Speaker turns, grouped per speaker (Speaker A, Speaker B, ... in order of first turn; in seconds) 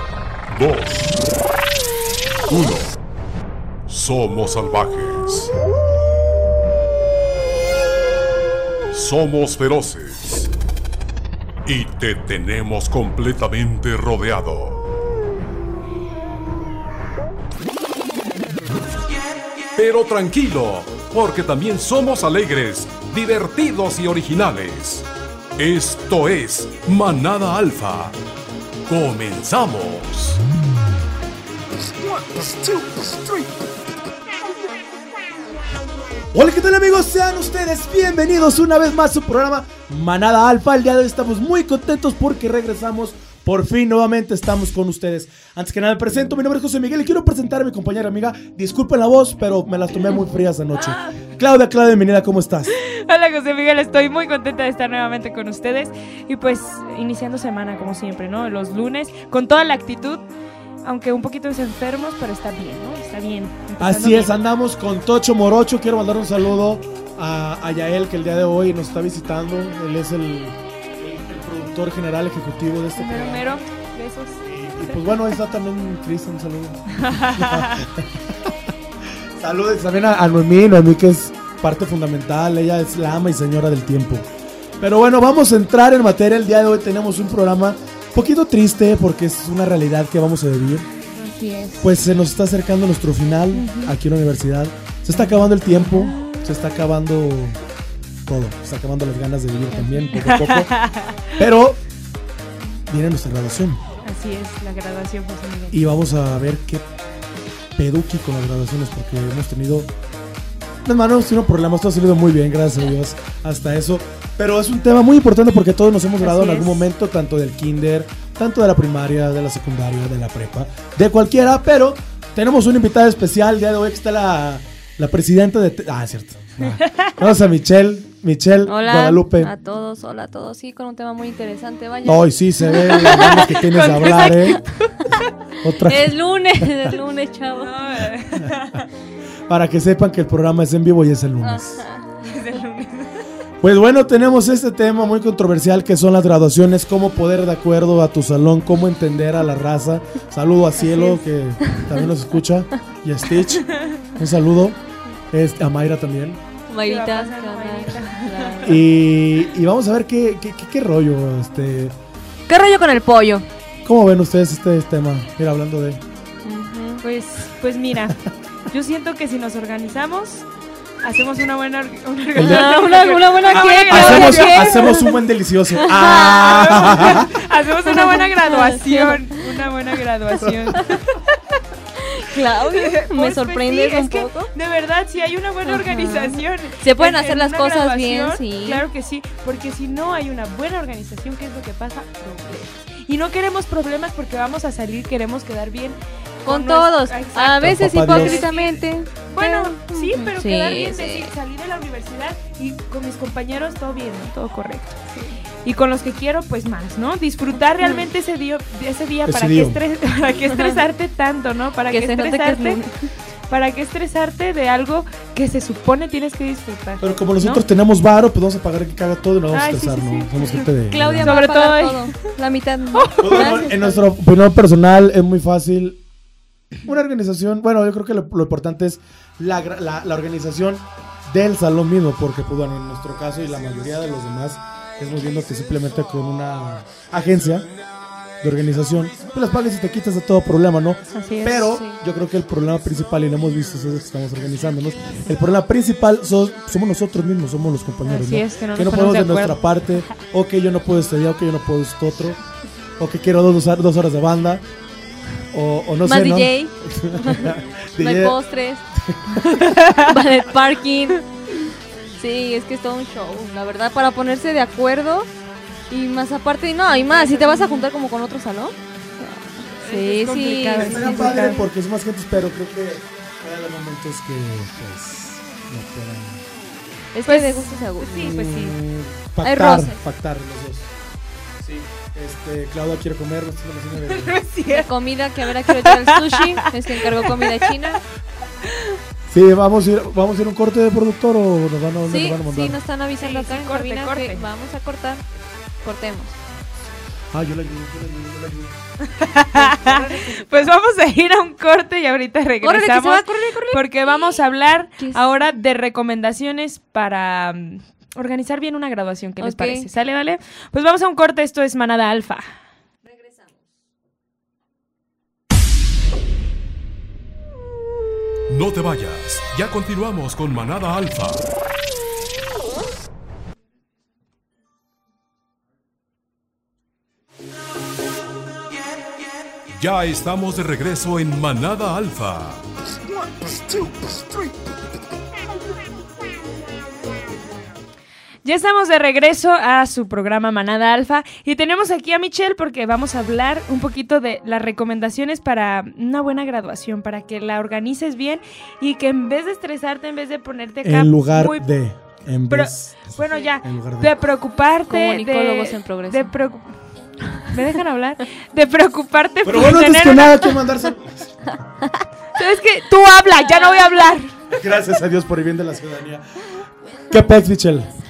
Speaker A: 0.5-1.2, 2.5-2.9, 3.9-5.5, 8.9-10.5, 11.7-14.8, 19.8-28.1, 28.9-30.4, 32.3-33.2, 318.5-321.5, 329.8-332.6
Speaker B: 36.3-52.7, 63.8-73.6, 74.4-78.5, 79.4-84.3, 84.8-90.8, 91.8-97.6, 98.3-100.7, 101.3-101.8, 102.9-103.8, 105.7-106.8, 107.8-109.9, 110.8-129.5, 132.0-134.6, 135.6-136.9, 139.5-141.8, 143.6-154.8, 155.3-156.4, 158.6-161.9, 163.8-166.0, 172.3-172.7, 173.9-177.3, 197.6-198.4, 209.2-209.8, 217.0-221.3, 223.2-226.0, 226.8-237.7, 238.4-252.4, 253.0-254.6, 255.5-258.4, 258.9-259.7, 270.7-276.4, 278.1-280.9, 281.6-284.4, 289.3-292.8, 297.3-298.8, 350.8-354.2, 359.4-361.4, 364.5-366.4, 367.1-367.9
Speaker C: 50.8-51.2, 52.7-60.3, 60.8-64.3, 73.0-75.2, 77.0-77.9, 91.1-91.9, 93.5-94.0, 95.1-96.4, 99.7-101.4, 104.0-106.0, 116.3-116.8, 126.7-127.0, 132.8-135.1, 137.5-138.8, 142.2-143.1, 153.8-154.0, 156.8-158.8, 167.0-170.4, 171.0-175.0, 176.1-181.3, 182.7-212.8, 213.5-217.6, 219.5-220.7, 221.2-222.2, 222.9-223.8, 241.1-241.7, 248.0-249.6, 266.9-267.9, 269.6-271.6, 277.2-278.8, 284.0-284.9, 285.7-286.6, 293.2-294.4, 299.1-312.4, 338.4-351.7, 352.5-356.7, 357.4-360.6, 362.3-364.3
Speaker D: 116.3-116.6, 128.6-133.6, 135.8-137.7, 141.4-142.1, 150.8-152.0, 156.7-158.8, 162.5-163.5, 166.4-167.0, 172.3-175.1, 175.8-177.2, 177.8-179.4, 180.7-181.0, 182.0-184.5, 185.6-188.8, 196.4-201.3, 211.8-213.1, 220.9-224.1, 241.7-242.0, 256.0-258.8, 259.9-261.2, 262.2-265.3, 265.9-271.6, 277.1-278.3, 279.4-280.0, 284.7-288.0, 292.1-295.2, 295.8-296.3, 299.6-300.7, 302.6-304.4, 305.0-305.4, 309.4-309.9, 313.1-313.5, 354.9-356.3